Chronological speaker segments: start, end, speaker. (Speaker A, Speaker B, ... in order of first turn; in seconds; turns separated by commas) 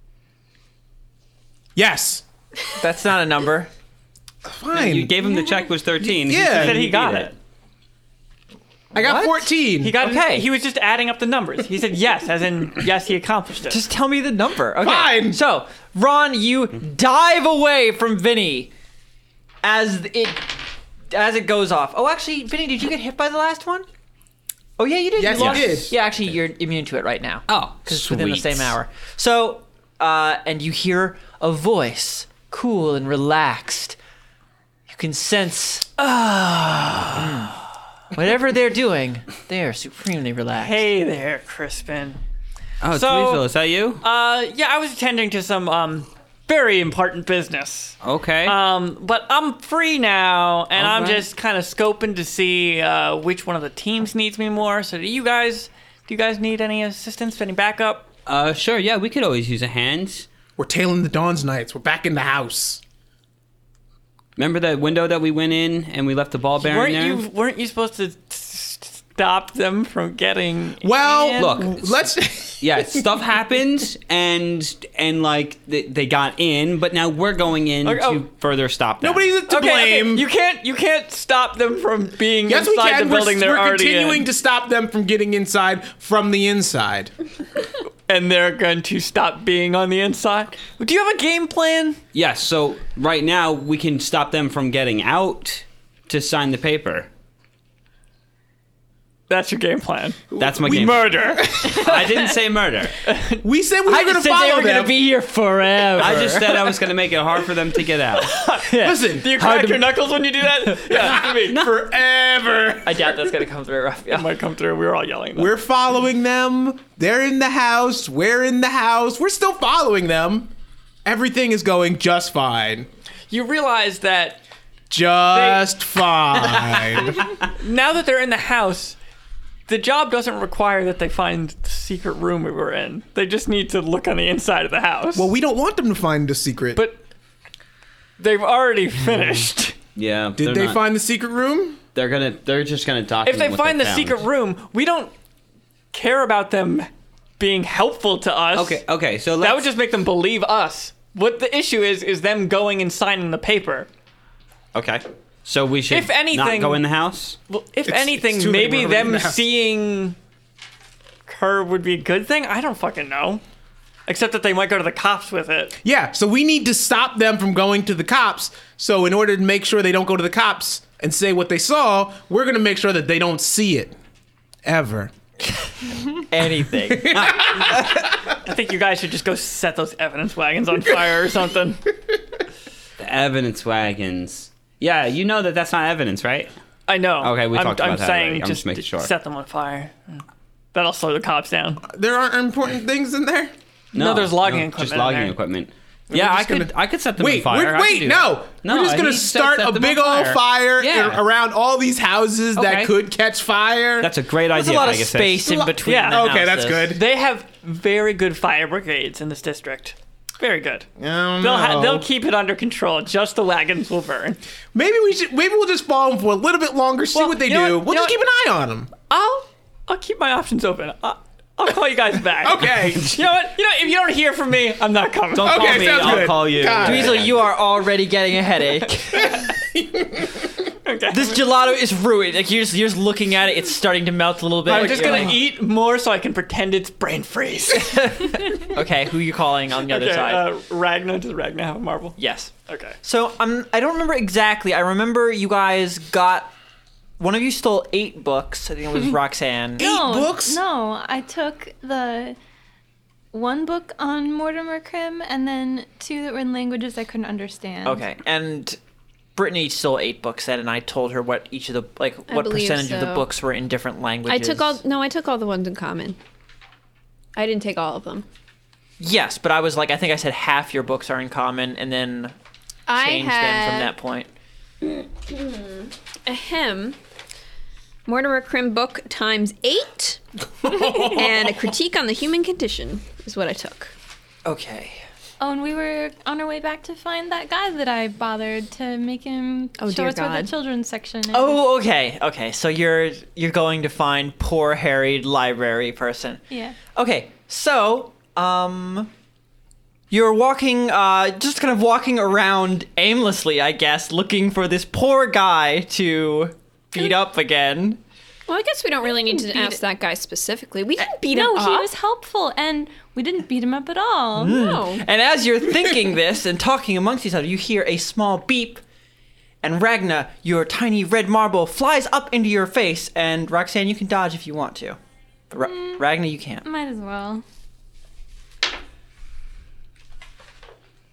Speaker A: 1.8-2.2, Speaker B: 2.8-3.7, Speaker A: 4.5-5.2, Speaker C: 4.7-7.3, Speaker A: 6.2-6.9, Speaker D: 6.5-7.3, Speaker A: 8.9-10.0, Speaker B: 8.9-10.5, Speaker D: 9.8-13.8, Speaker B: 13.7-18.7, Speaker A: 14.8-15.4, Speaker B: 19.6-20.6, Speaker B: 21.1-23.9, Speaker B: 24.8-34.0, Speaker A: 25.2-25.9, Speaker C: 25.3-25.8, Speaker C: 27.5-28.8, Speaker B: 34.9-40.9, Speaker D: 40.6-42.2, Speaker C: 42.8-44.0, Speaker D: 42.9-43.5, Speaker D: 44.0-58.1, Speaker C: 48.0-48.6, Speaker C: 50.8-51.3, Speaker C: 58.2-60.3, Speaker A: 60.6-62.8, Speaker C: 64.4-67.2, Speaker D: 66.6-71.7, Speaker A: 70.8-73.2, Speaker C: 71.4-79.3, Speaker D: 77.8-78.2, Speaker A: 79.0-80.3, Speaker D: 79.5-84.3, Speaker A: 82.5-87.1, Speaker D: 88.1-92.0, Speaker C: 92.1-97.1, Speaker D: 99.3-102.3, Speaker A: 100.3-101.8, Speaker C: 100.4-103.0, Speaker D: 103.0-103.4, Speaker A: 103.4-105.1, Speaker B: 103.8-106.8, Speaker C: 106.0-108.3, Speaker A: 106.0-106.6, Speaker D: 108.2-111.7, Speaker B: 108.6-109.8, Speaker A: 108.8-109.6, Speaker A: 110.9-113.3, Speaker C: 111.5-111.8, Speaker B: 112.8-114.3, Speaker D: 114.1-115.5, Speaker A: 115.3-120.5, Speaker A: 121.0-122.9, Speaker D: 123.3-124.4, Speaker A: 124.9-127.3, Speaker D: 125.3-125.7, Speaker D: 127.5-129.0, Speaker D: 129.7-135.3, Speaker A: 135.2-136.8, Speaker D: 136.8-137.0, Speaker D: 138.2-139.8, Speaker C: 139.9-140.9, Speaker A: 140.4-141.8, Speaker C: 141.9-144.2, Speaker D: 143.2-145.1, Speaker D: 145.9-148.8, Speaker C: 148.5-149.7, Speaker D: 149.4-153.9, Speaker C: 154.7-157.4, Speaker D: 155.9-156.8, Speaker D: 157.5-160.2, Speaker A: 157.8-159.4, Speaker D: 161.3-163.4, Speaker D: 164.1-165.8, Speaker A: 165.8-173.9, Speaker A: 174.7-175.1, Speaker B: 176.3-177.7, Speaker A: 176.8-178.1, Speaker C: 177.1-177.9, Speaker D: 178.4-181.8, Speaker C: 183.0-186.5, Speaker D: 186.9-190.2, Speaker C: 187.2-189.1, Speaker D: 190.7-191.8, Speaker A: 191.9-193.5, Speaker D: 193.9-195.3, Speaker C: 193.9-201.2, Speaker A: 196.1-204.1, Speaker C: 202.6-202.9, Speaker C: 204.0-205.7, Speaker B: 204.5-207.0, Speaker D: 205.8-210.9, Speaker A: 206.1-207.0, Speaker A: 211.0-212.1, Speaker D: 211.4-214.4, Speaker A: 214.7-218.9, Speaker D: 217.1-218.2, Speaker D: 219.1-226.3, Speaker A: 222.4-223.2, Speaker C: 225.3-227.4, Speaker A: 225.4-227.3, Speaker B: 226.8-229.3, Speaker D: 228.9-229.5, Speaker A: 229.4-230.4, Speaker D: 230.8-231.4, Speaker B: 231.1-235.3, Speaker D: 234.7-238.2, Speaker A: 234.7-235.4, Speaker B: 237.7-240.5, Speaker D: 239.8-242.9, Speaker B: 242.2-242.5, Speaker B: 243.0-246.5, Speaker B: 247.2-249.9, Speaker E: 249.8-252.4, Speaker A: 249.8-250.6, Speaker E: 253.3-258.0, Speaker B: 257.8-258.8, Speaker B: 259.4-264.8, Speaker F: 262.3-263.3, Speaker F: 264.3-266.2, Speaker F: 267.4-268.3, Speaker B: 269.0-272.3, Speaker F: 272.9-273.9, Speaker B: 272.9-274.3, Speaker F: 275.3-277.0, Speaker F: 278.1-283.9, Speaker A: 280.6-281.7, Speaker B: 284.4-285.0, Speaker E: 285.4-291.6, Speaker F: 289.8-290.5, Speaker B: 291.3-299.1, Speaker E: 296.5-296.8, Speaker B: 300.1-308.0, Speaker F: 308.5-311.9, Speaker E: 309.2-309.8, Speaker E: 311.3-314.6, Speaker B: 314.4-318.8, Speaker F: 314.4-315.1, Speaker B: 319.6-325.0, Speaker B: 325.5-326.7, Speaker E: 325.6-326.0, Speaker E: 326.6-327.4